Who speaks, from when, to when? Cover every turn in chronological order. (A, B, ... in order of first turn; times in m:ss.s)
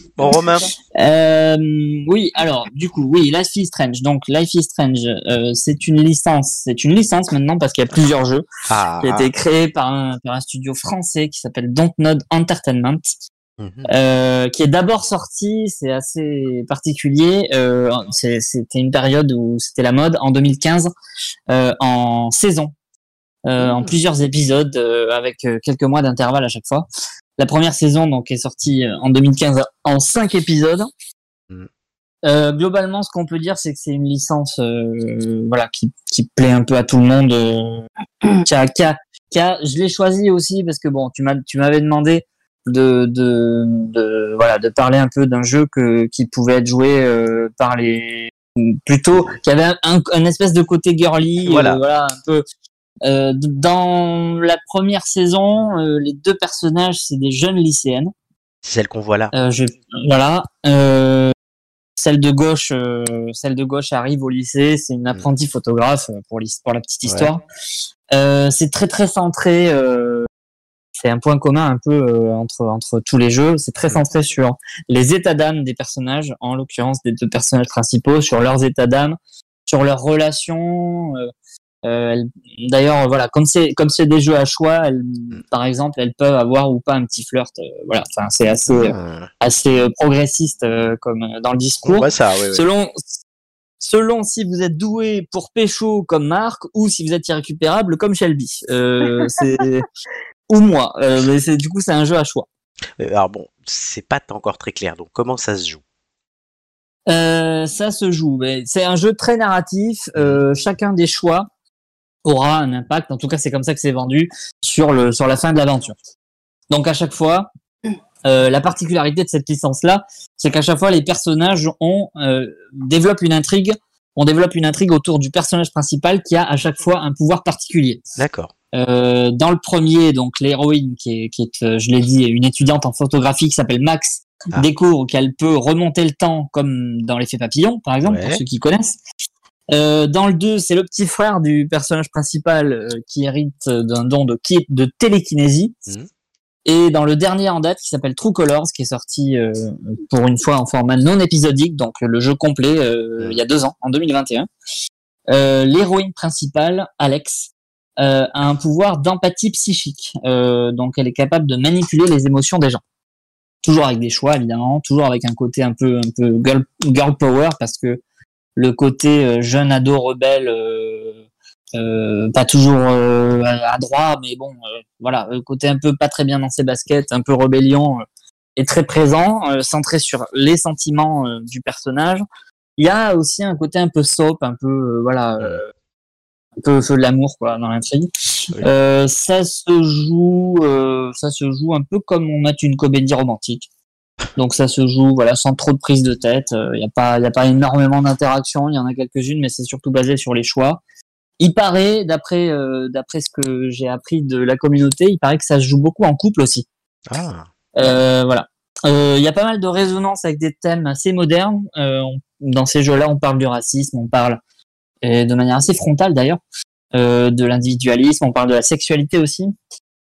0:00.2-0:00.7 A
0:00.9-0:08.4 B
0:08.7-0:09.3 A
0:09.0-0:13.1 B
0:13.6-0:13.9 A
0:13.9-0:20.9 B
0:21.5-0:22.7 B
0:23.4-0:26.8 B
0:23.6-0:23.9 A
0:27.4-0:30.9 B
0:32.2-0:37.9 B
0:38.4-0:52.4 B
0:51.4-0:51.8 A
0:53.0-0:58.1 B
0:58.6-0:59.3 A
0:59.3-1:01.3 B
1:02.0-1:07.4 B
1:07.1-1:07.3 A
1:08.1-1:10.3 B
1:11.0-1:19.2 B
1:19.7-1:21.3 B
1:21.8-1:33.0 B
1:28.7-1:29.3 A
1:31.8-1:32.6 A
1:33.8-1:39.9 B
1:40.5-1:42.5 B
1:43.0-1:45.8 A
1:47.1-1:51.5 B
1:52.2-1:56.0 B
1:56.7-1:57.5 B
1:58.2-2:08.0 B
2:08.2-2:08.5 A
2:08.7-2:19.0 B
2:18.0-2:18.4 A
2:19.7-2:25.8 B
2:26.6-2:34.5 B
2:35.3-2:42.8 B
2:43.6-2:48.0 B
2:48.6-2:51.2 B
2:51.7-2:58.0 B
2:58.6-3:02.2 B
3:02.8-3:05.7 B
3:06.6-3:13.7 B
3:14.4-3:20.8 B
3:21.4-3:26.6 B
3:27.1-3:28.0 A
3:27.8-3:34.4 B
3:35.0-3:36.4 B
3:36.9-3:39.5 B